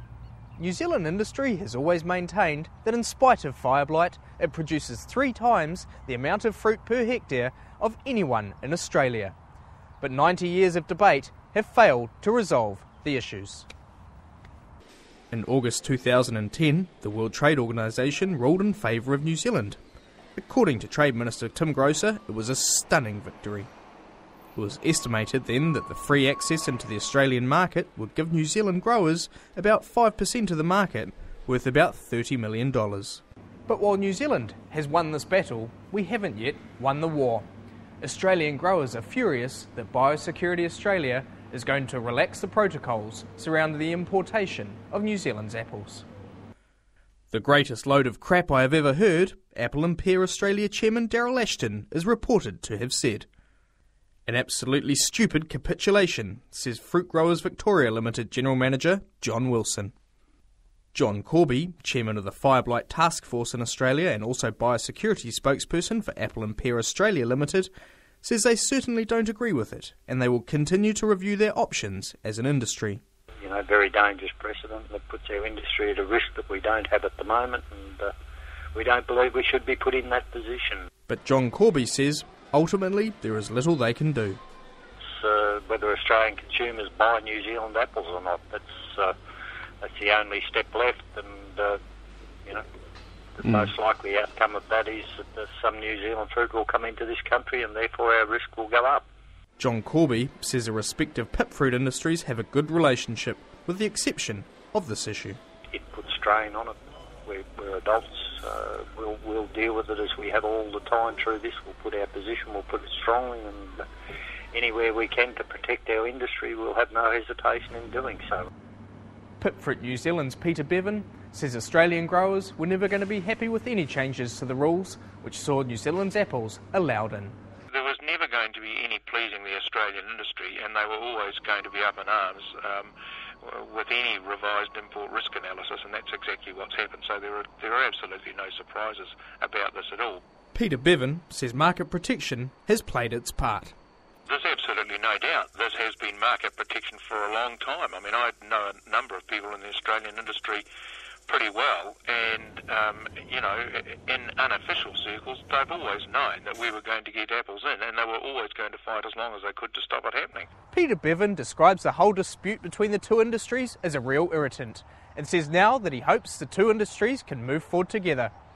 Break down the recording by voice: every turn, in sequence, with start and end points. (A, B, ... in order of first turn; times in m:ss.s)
0:00.6-0:09.3 A
0:10.0-0:13.7 A
0:15.3-0:19.8 A
0:20.4-0:23.7 A
0:24.5-0:37.5 A
0:38.0-0:46.1 A
0:47.3-0:53.3 A
0:54.3-0:59.9 A
1:00.9-1:07.7 A
1:08.2-1:13.0 A
1:13.4-1:18.1 B
1:18.7-1:20.8 B
1:21.1-1:24.4 A
1:25.2-1:29.1 B
1:29.8-1:31.8 B
1:33.4-1:39.1 B
1:39.6-1:45.4 A
1:45.7-1:46.7 B
1:47.2-1:53.8 B
1:54.5-1:58.5 B
1:59.4-2:07.4 A
2:07.7-2:20.2 C
2:20.5-2:23.7 A
2:24.3-2:30.6 C
2:31.3-2:40.5 C
2:40.7-2:48.3 A